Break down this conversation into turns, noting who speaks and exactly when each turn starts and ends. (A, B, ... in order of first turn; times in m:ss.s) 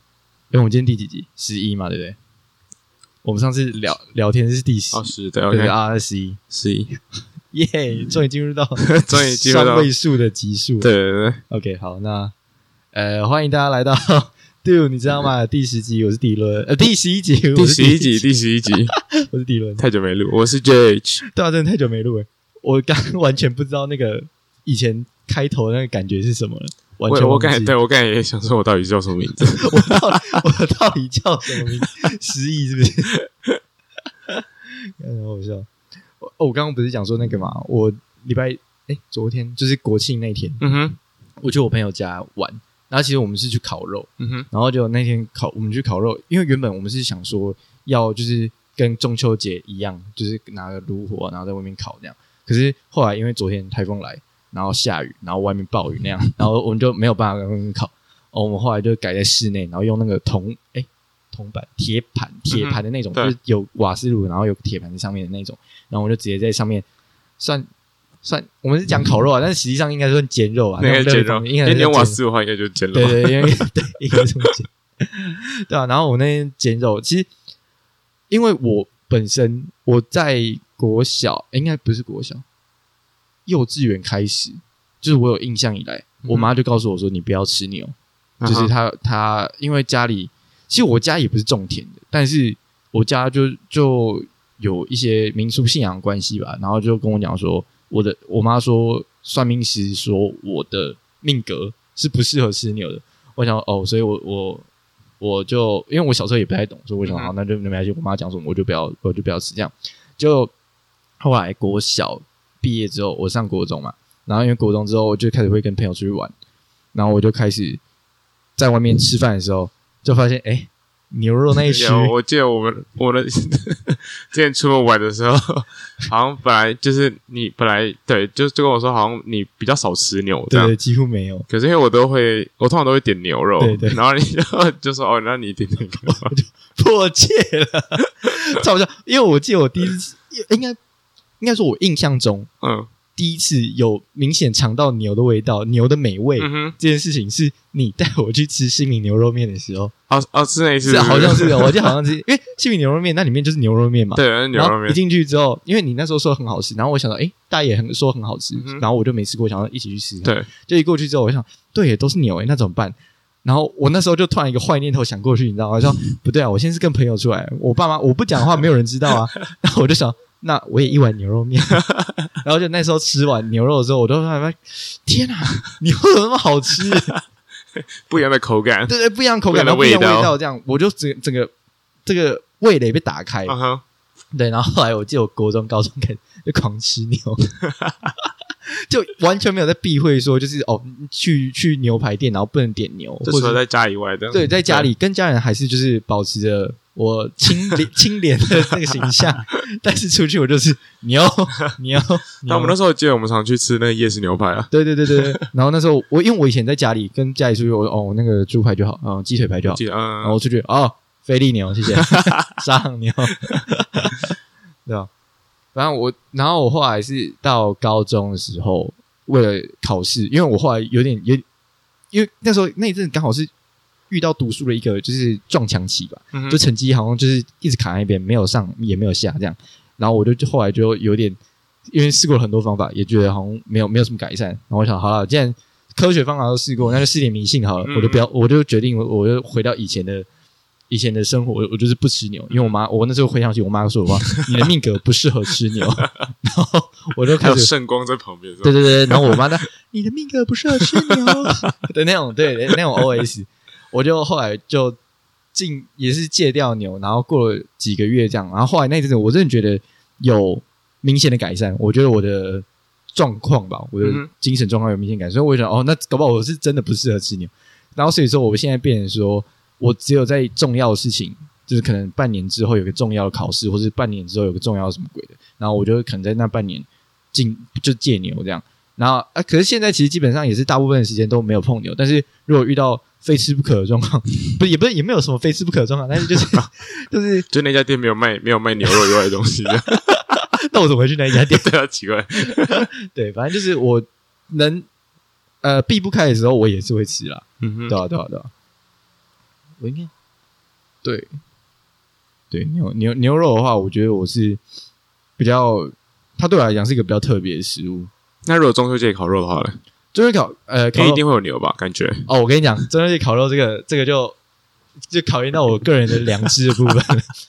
0:00.5-0:02.2 A
0:03.2-0:06.4 A
0:04.9-0:05.7 B
0:06.5-0:06.9 B
0:07.5-0:10.9 A
0:08.8-0:09.9 B
0:10.8-0:11.4 B
0:11.5-0:12.3 A
0:12.9-0:18.3 A
0:17.5-0:18.9 B
0:18.9-0:19.8 A
0:19.8-0:21.2 B
0:21.3-0:27.7 A
0:27.1-0:30.4 B
0:29.6-0:33.2 A
0:35.0-0:35.7 A
0:36.2-0:40.6 A
0:40.6-0:41.0 B
0:41.4-1:06.8 A
0:44.2-0:44.5 B
1:02.5-1:03.3 B
1:07.4-1:07.7 A
1:08.2-1:12.2 A
1:10.8-1:13.6 B
1:12.9-1:17.3 A
1:18.3-1:22.4 A
1:23.4-1:44.6 A
1:26.2-1:26.5 B
1:28.4-1:28.7 B
1:45.2-1:50.5 A
1:47.0-1:47.3 B
1:51.2-1:56.3 A
1:56.9-1:57.8 A
1:58.6-2:02.1 A
2:01.7-2:10.7 B
2:10.5-2:11.4 A
2:11.5-2:16.3 B
2:13.6-2:14.0 A
2:16.0-2:20.8 A
2:21.4-2:22.5 A
2:22.6-2:22.9 B
2:23.1-2:29.9 A
2:26.4-2:26.8 B
2:30.1-2:31.9 B
2:30.8-2:51.8 A
2:34.2-2:35.0 B
2:38.5-2:38.8 B
2:40.2-2:40.5 B
2:52.4-2:57.2 A
2:57.8-2:58.9 B
2:58.9-3:01.5 A
2:59.5-3:00.3 B
3:02.0-3:03.6 A
3:03.5-3:03.8 B
3:04.3-3:07.6 A
3:08.7-3:13.6 A
3:13.2-3:14.9 B
3:14.3-3:22.7 A
3:22.4-3:25.3 B
3:24.7-3:34.3 A
3:29.7-3:30.4 B
3:32.0-3:32.4 B
3:35.7-3:41.4 A
3:42.1-3:43.5 A
3:44.1-3:51.4 A
3:46.3-3:46.6 B
3:51.9-4:00.2 A
3:57.8-3:58.3 B
4:00.9-4:07.7 A
4:07.4-4:09.4 B
4:08.6-4:15.0 A
4:10.8-4:11.4 B
4:15.5-4:47.5 A
4:24.0-4:24.3 B
4:47.5-4:50.0 B
4:49.9-4:51.7 A
4:51.4-4:52.9 B
4:52.4-4:54.8 A
4:55.6-4:58.5 A
4:57.6-4:58.0 B
4:59.8-5:00.1 A
5:01.0-5:01.3 A
5:02.5-5:04.6 A
5:05.4-5:08.1 A
5:08.4-5:09.8 B
5:10.1-5:11.2 A
5:10.9-5:12.3 B
5:12.3-5:14.4 A
5:15.1-5:17.3 A